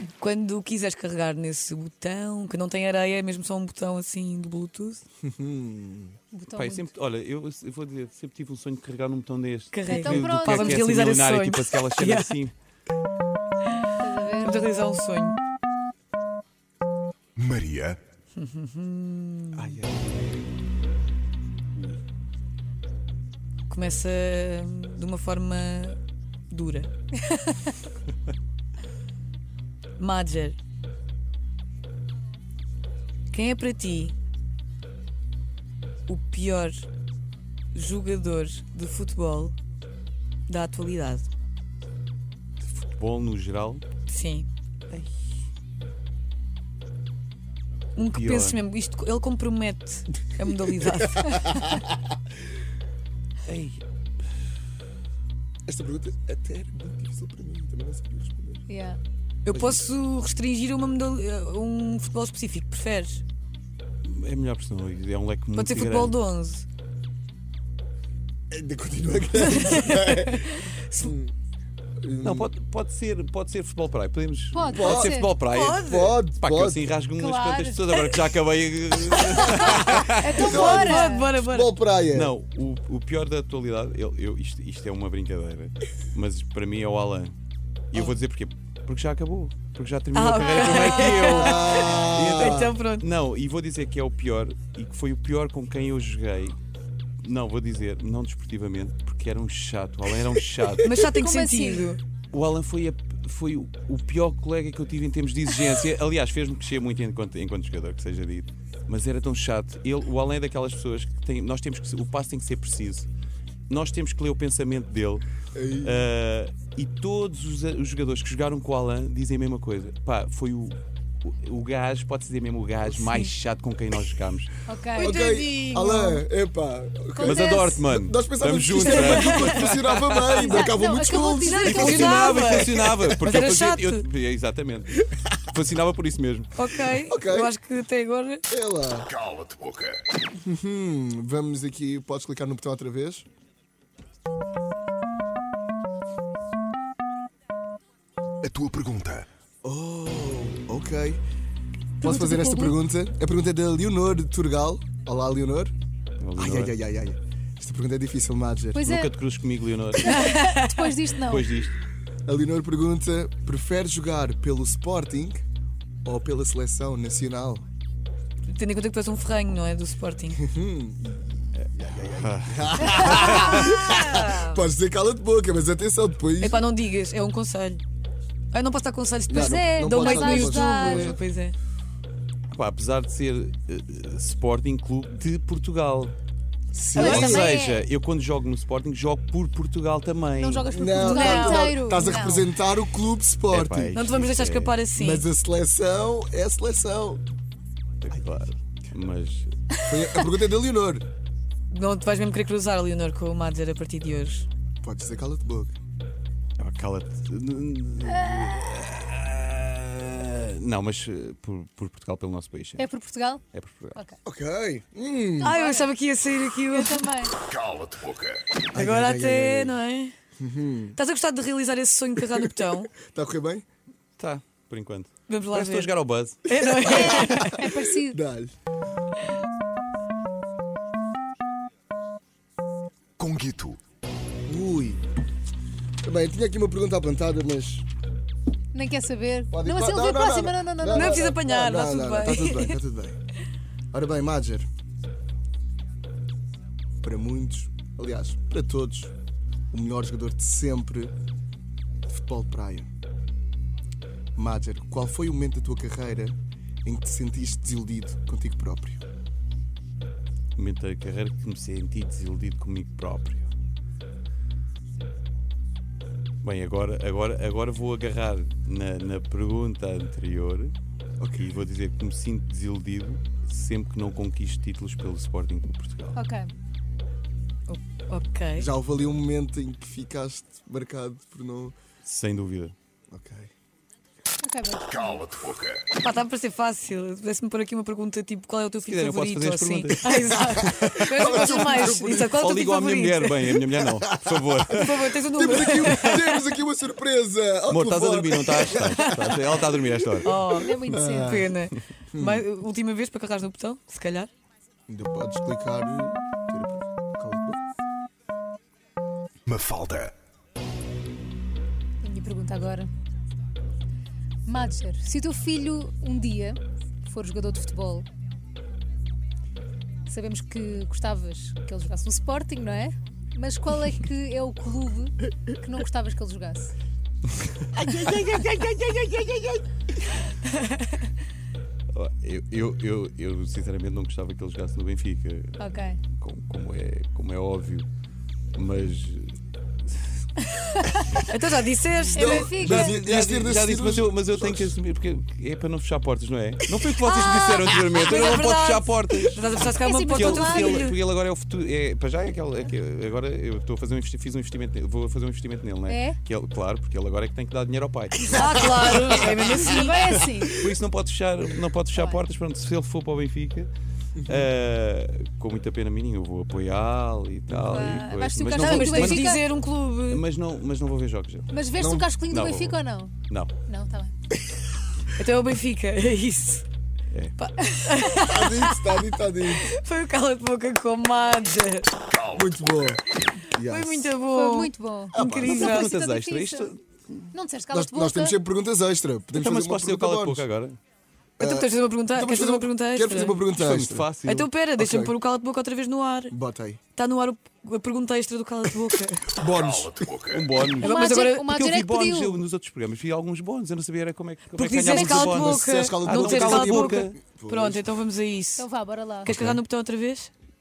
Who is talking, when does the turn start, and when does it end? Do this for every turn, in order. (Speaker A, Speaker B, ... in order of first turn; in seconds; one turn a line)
Speaker A: 0.2-5.0
Speaker B: 5.2-6.2
Speaker C: 6.3-6.9
Speaker D: 6.5-12.5
Speaker A: 9.7-12.3
Speaker C: 9.9-10.9
Speaker C: 14.0-14.6
Speaker A: 14.3-15.4
Speaker E: 17.4-18.0
Speaker A: 18.4-19.8
Speaker D: 19.5-20.4
Speaker A: 23.7-26.0
Speaker A: 26.5-27.6
Speaker A: 30.0-30.6
Speaker A: 33.3-34.1
Speaker A: 36.1-36.9
Speaker A: 37.7-39.5
Speaker A: 40.5-41.3
Speaker D: 42.6-43.9
Speaker A: 44.1-44.5
Speaker A: 48.0-51.6
Speaker D: 48.0-48.6
Speaker B: 50.9-52.0
Speaker D: 53.4-53.8
Speaker B: 55.6-58.6
Speaker C: 58.7-59.0
Speaker A: 59.5-63.2
Speaker B: 59.5-59.8
Speaker D: 64.0-66.1
Speaker A: 65.5-66.7
Speaker B: 68.5-71.3
Speaker A: 69.5-71.1
Speaker B: 72.0-72.5
Speaker D: 72.2-80.4
Speaker C: 74.5-75.3
Speaker B: 74.6-76.9
Speaker A: 75.4-76.2
Speaker C: 77.2-77.9
Speaker A: 79.3-81.7
Speaker C: 79.5-81.3
Speaker B: 80.3-82.3
Speaker D: 82.1-87.3
Speaker D: 87.9-96.6
Speaker A: 90.1-93.0
Speaker B: 90.8-92.7
Speaker D: 97.2-100.9
Speaker A: 100.8-102.0
Speaker C: 101.1-101.9
Speaker D: 102.3-113.1
Speaker D: 113.7-115.2
Speaker B: 115.5-116.1
Speaker D: 115.8-124.5
Speaker C: 124.7-125.2
Speaker A: 125.0-126.2
Speaker B: 125.0-132.2
Speaker C: 127.1-127.8
Speaker D: 127.2-130.6
Speaker A: 128.8-129.7
Speaker C: 130.3-132.7
Speaker A: 130.9-134.0
Speaker D: 131.6-136.6
Speaker A: 136.5-138.4
Speaker B: 137.1-137.5
Speaker B: 138.5-139.1
Speaker E: 139.1-140.0
Speaker B: 140.4-143.2
Speaker E: 148.4-149.3
Speaker B: 149.6-151.2
Speaker C: 152.0-152.8
Speaker B: 152.0-155.7
Speaker D: 156.2-156.7
Speaker B: 156.3-158.9
Speaker C: 158.7-159.1
Speaker D: 158.8-160.3
Speaker C: 160.0-161.5
Speaker A: 160.0-160.9
Speaker D: 161.2-161.8
Speaker B: 162.2-165.4
Speaker B: 166.0-167.6
Speaker A: 168.4-170.4
Speaker B: 170.4-176.6
Speaker D: 171.6-173.8
Speaker A: 172.8-174.6
Speaker A: 176.4-177.8
Speaker A: 178.5-181.5
Speaker B: 179.3-181.2
Speaker C: 179.3-181.1
Speaker D: 182.5-186.1
Speaker B: 186.7-187.5
Speaker C: 186.9-187.8
Speaker D: 186.9-191.4
Speaker C: 190.3-192.4
Speaker B: 190.7-194.2
Speaker D: 193.5-194.8
Speaker A: 193.9-195.2
Speaker B: 194.9-197.2
Speaker D: 198.0-199.5
Speaker B: 199.9-201.1
Speaker A: 201.7-204.5
Speaker B: 204.8-205.7
Speaker D: 206.6-212.9
Speaker C: 212.8-213.4
Speaker D: 213.5-214.0
Speaker B: 214.2-215.6
Speaker A: 215.4-217.3
Speaker C: 215.4-215.9
Speaker C: 216.7-217.3
Speaker E: 217.4-218.4
Speaker B: 218.7-219.8
Speaker A: 218.7-220.1
Speaker B: 220.4-221.0
Speaker A: 220.9-222.9
Speaker B: 222.4-223.6
Speaker D: 224.2-226.6
Speaker A: 225.3-225.9
Speaker A: 226.4-227.7
Speaker C: 226.8-228.2
Speaker B: 228.1-228.5
Speaker E: 233.2-233.8
Speaker B: 234.4-235.0
Speaker B: 236.0-237.9
Speaker C: 238.7-241.3
Speaker B: 239.5-243.2
Speaker A: 240.9-242.8
Speaker B: 243.9-244.7
Speaker B: 247.0-249.1
Speaker B: 249.7-251.1
Speaker B: 252.1-252.9
Speaker B: 254.3-259.0
Speaker D: 260.6-263.5
Speaker D: 266.4-270.7
Speaker B: 271.2-271.5
Speaker D: 271.4-276.2
Speaker C: 276.1-276.5
Speaker A: 277.7-278.7
Speaker B: 278.6-281.7
Speaker D: 282.0-282.7
Speaker B: 283.1-283.5
Speaker C: 284.4-285.4
Speaker E: 285.1-285.8
Speaker A: 285.9-293.6
Speaker D: 288.9-295.1
Speaker B: 290.6-292.3
Speaker A: 294.7-296.4
Speaker B: 295.3-299.0
Speaker D: 295.8-296.1
Speaker D: 297.7-300.4
Speaker A: 298.8-299.3
Speaker A: 300.2-304.3
Speaker B: 300.5-301.6
Speaker C: 300.5-301.5
Speaker B: 302.1-302.4
Speaker B: 304.9-307.6
Speaker E: 309.4-310.1
Speaker C: 312.0-312.9
Speaker C: 314.5-318.1
Speaker C: 320.1-326.7
Speaker D: 327.6-329.6
Speaker D: 331.9-337.9
Speaker C: 335.6-336.0
Speaker D: 338.5-339.3
Speaker A: 341.2-342.5
Speaker C: 342.1-342.9
Speaker B: 342.1-344.7
Speaker D: 342.6-349.5
Speaker A: 347.1-351.0
Speaker C: 349.8-350.9
Speaker D: 350.1-359.4
Speaker C: 355.9-356.2
Speaker A: 358.3-360.2
Speaker B: 358.4-359.7
Speaker C: 359.6-360.6
Speaker D: 360.1-363.7
Speaker C: 361.9-362.2
Speaker B: 364.2-364.5
Speaker D: 364.2-369.4
Speaker C: 367.6-369.4
Speaker A: 368.5-370.2
Speaker D: 370.1-371.5
Speaker C: 371.5-373.1
Speaker B: 371.8-372.1
Speaker D: 372.3-373.5
Speaker C: 373.7-374.1
Speaker A: 375.1-376.6
Speaker A: 377.4-378.9
Speaker B: 378.2-379.8
Speaker A: 379.5-381.9
Speaker B: 382.3-384.1
Speaker A: 383.6-385.9
Speaker C: 384.3-386.7
Speaker D: 385.1-387.3
Speaker B: 385.2-385.8
Speaker C: 387.3-388.4
Speaker B: 387.7-390.4
Speaker D: 389.3-390.8
Speaker B: 391.4-394.1
Speaker A: 391.4-393.4
Speaker D: 393.6-394.5
Speaker A: 394.2-396.3
Speaker B: 394.8-395.1
Speaker B: 396.3-396.8
Speaker A: 396.9-399.3
Speaker B: 399.3-400.1
Speaker E: 399.5-400.5
Speaker D: 400.3-407.1
Speaker A: 400.8-401.5
Speaker C: 400.8-402.4
Speaker A: 404.5-408.7
Speaker C: 404.8-405.3
Speaker B: 405.2-407.9
Speaker C: 408.6-409.3
Speaker A: 409.2-410.3
Speaker D: 409.2-409.6